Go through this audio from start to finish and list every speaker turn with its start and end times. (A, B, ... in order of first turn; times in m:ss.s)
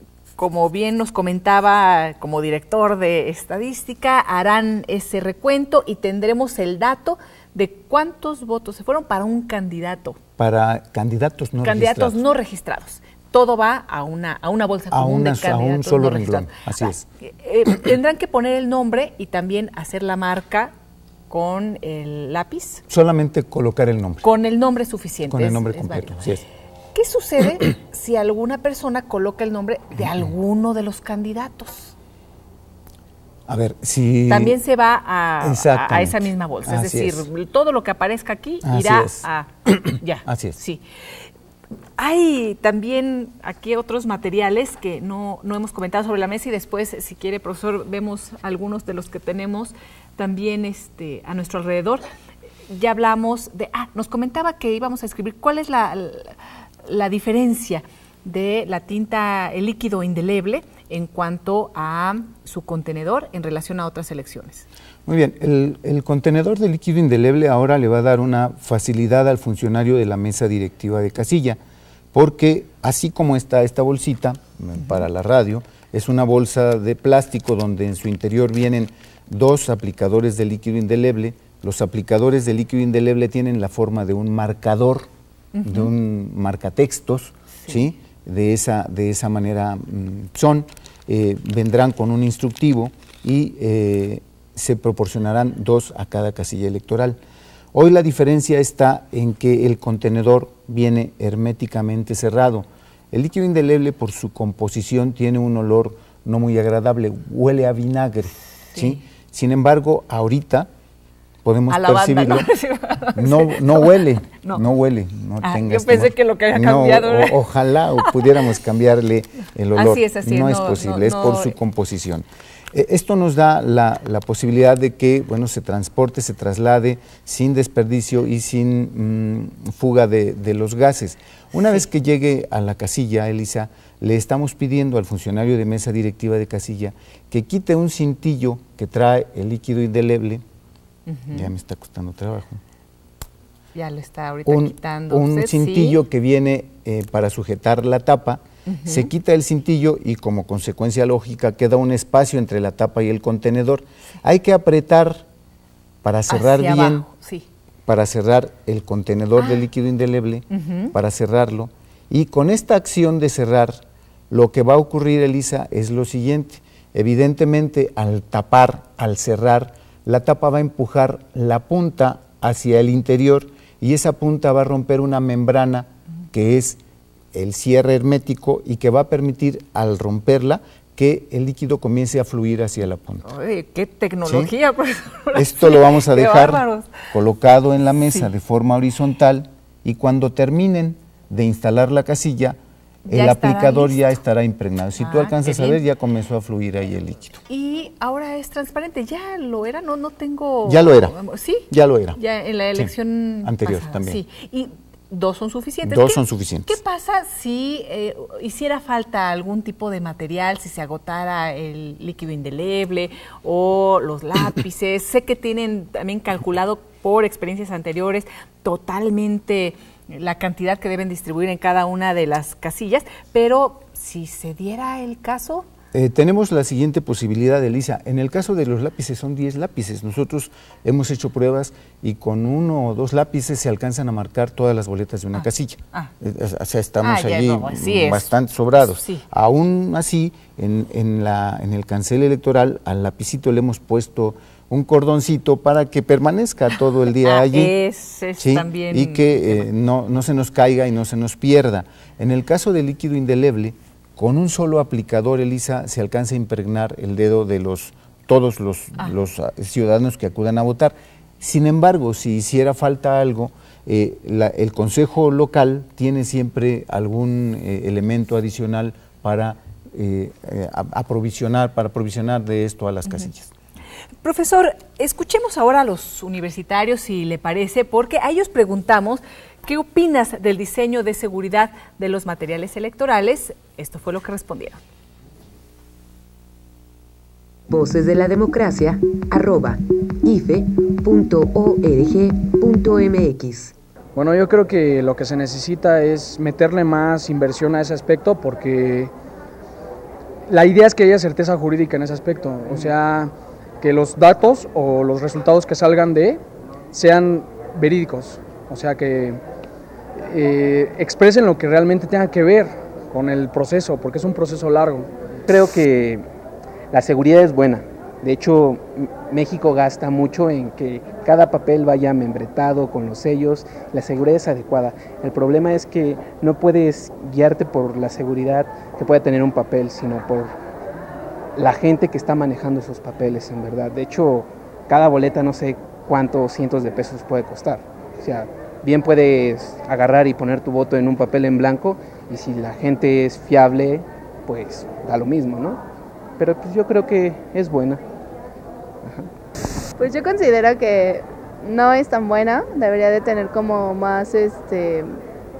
0:00.4-0:10.2 A
0:10.4-0:12.2 B
0:11.6-0:20.7 A
0:14.9-0:17.0 B
0:21.3-0:22.8 A
0:22.9-0:24.2 B
0:24.2-0:26.2 A
0:25.3-0:26.4 B
0:26.9-0:31.9 A
0:33.5-0:34.6 B
0:34.3-0:40.8 A
0:35.4-0:37.3 B
0:38.6-0:40.6 B
0:42.0-0:52.0 A
0:52.7-0:56.3 A
0:56.8-1:04.6 A
1:05.0-1:11.6 B
1:12.1-1:25.1 B
1:25.5-1:25.9 A
1:25.6-1:37.2 B
1:27.6-1:27.9 A
1:37.7-1:50.7 B
1:48.7-1:49.0 A
1:51.4-1:52.5 B
1:51.7-1:54.6 A
1:53.2-2:20.4 B
1:55.4-1:57.4 A
1:59.7-2:01.6 A
2:21.1-2:21.5 A
2:21.3-2:22.6 B
2:23.7-2:26.0 A
2:24.4-2:35.2 B
2:28.6-2:29.1 A
2:36.0-2:37.1 B
2:36.3-2:37.4 A
2:37.8-2:56.8 B
2:40.5-2:40.9 A
2:57.3-3:03.2 B
3:03.2-3:07.0 A
3:04.2-3:04.5 B
3:05.3-3:17.4 B
3:13.1-3:14.0 A
3:15.0-3:15.8 A
3:17.5-3:45.6 A
3:20.6-3:21.1 B
3:21.7-3:22.2 B
3:23.4-3:24.2 B
3:25.8-3:26.8 B
3:45.9-4:07.7 B
3:55.3-3:56.1 A
3:57.0-3:59.2 A
4:07.2-4:09.7 A
4:08.4-4:33.5 B
4:34.2-4:44.8 A
4:47.7-4:53.7 C
4:54.2-4:59.1 D
5:00.5-5:06.4 D
5:06.9-5:09.4 D
5:10.2-5:15.1 D
5:15.5-5:16.2 E
5:16.9-5:30.5 E
5:31.6-5:45.8 E
5:46.4-5:48.0 E
5:50.0-5:55.2 F